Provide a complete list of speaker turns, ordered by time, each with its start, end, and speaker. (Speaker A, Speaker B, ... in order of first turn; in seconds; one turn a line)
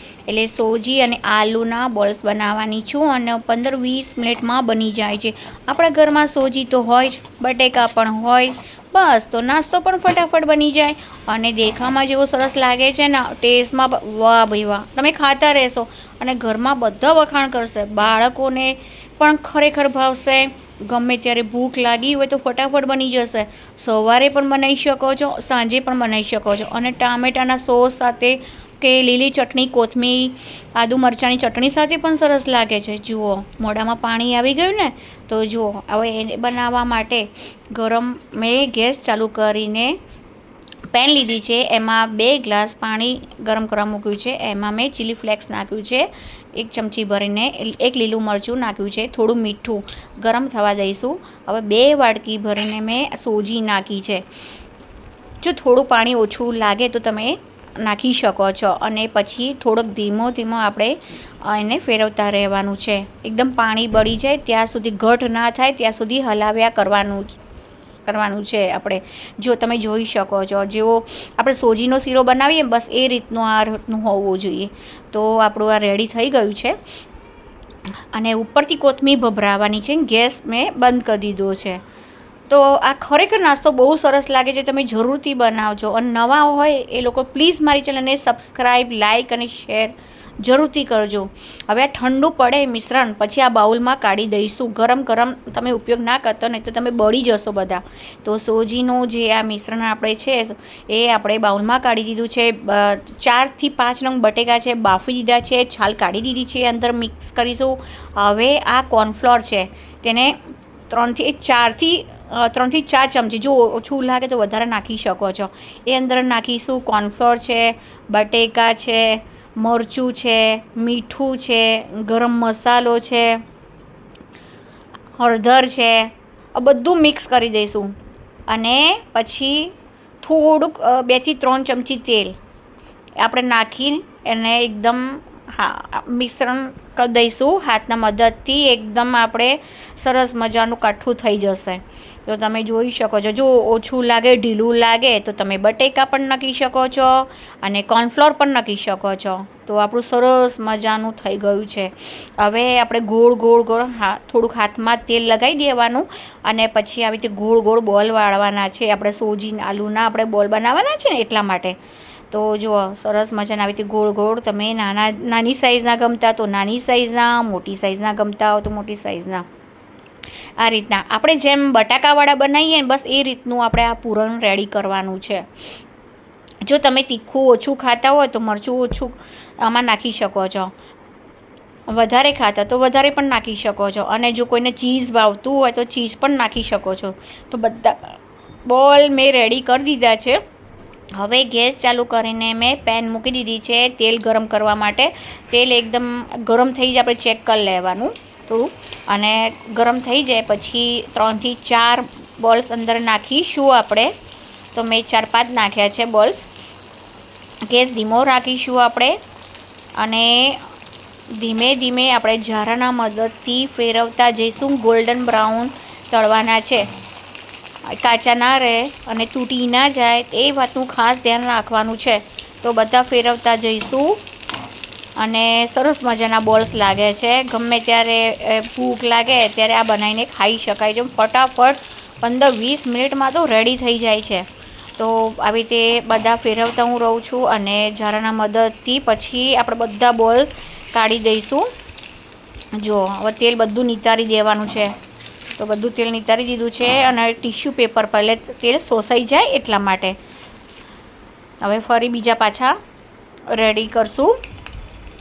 Speaker A: 0.3-40.0
Speaker A: 40.9-54.3
Speaker A: 55.4-67.3
Speaker A: 68.0-76.8
Speaker A: 78.1-81.8
Speaker A: 82.5-123.4
Speaker A: 125.2-128.0
Speaker A: 128.5-132.4
Speaker A: 133.2-161.8
Speaker A: 162.3-169.5
Speaker A: 170.6-175.5
Speaker A: 176.6-180.7
Speaker A: 181.9-190.4
Speaker A: 191.2-204.2
Speaker A: 204.7-206.5
Speaker A: 207.7-209.2
Speaker A: 210.0-210.7
Speaker A: 211.3-216.9
Speaker A: 217.8-224.2
Speaker A: 225.2-241.7
Speaker A: 242.7-244.9
Speaker A: 245.6-250.2
Speaker A: 251.6-252.8
Speaker A: 253.5-254.4